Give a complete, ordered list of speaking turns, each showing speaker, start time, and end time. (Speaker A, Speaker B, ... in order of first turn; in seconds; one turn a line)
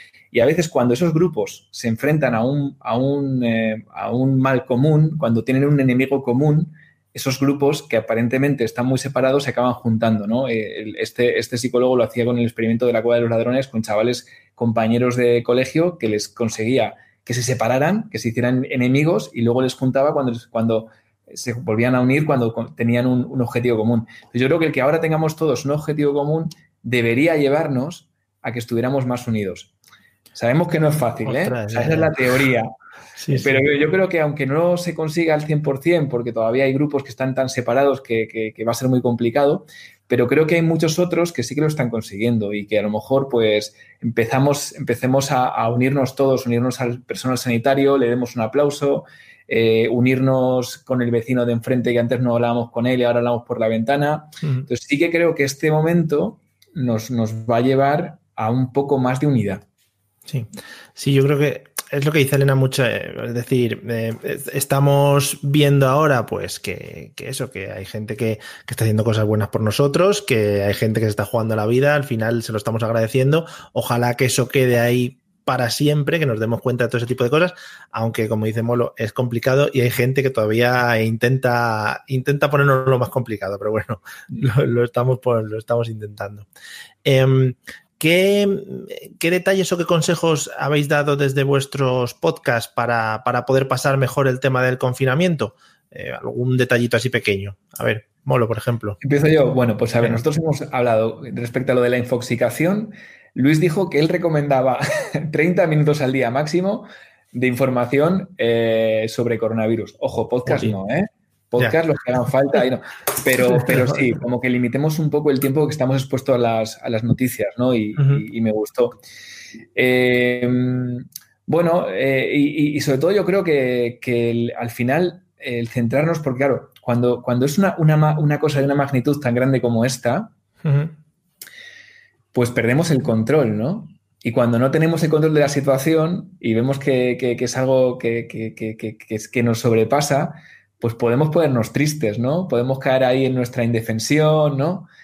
Speaker A: 0.3-29.7
Speaker A: 30.3-32.7
Speaker B: 31.2-32.3
Speaker B: 33.2-33.6
Speaker A: 33.3-59.6
Speaker B: 60.3-86.5
Speaker B: 87.0-99.0
Speaker A: 99.0-119.0
Speaker B: 110.5-110.8
Speaker B: 113.6-114.1
Speaker B: 118.0-118.2
Speaker A: 119.8-130.3
Speaker B: 130.6-130.9
Speaker A: 132.3-144.9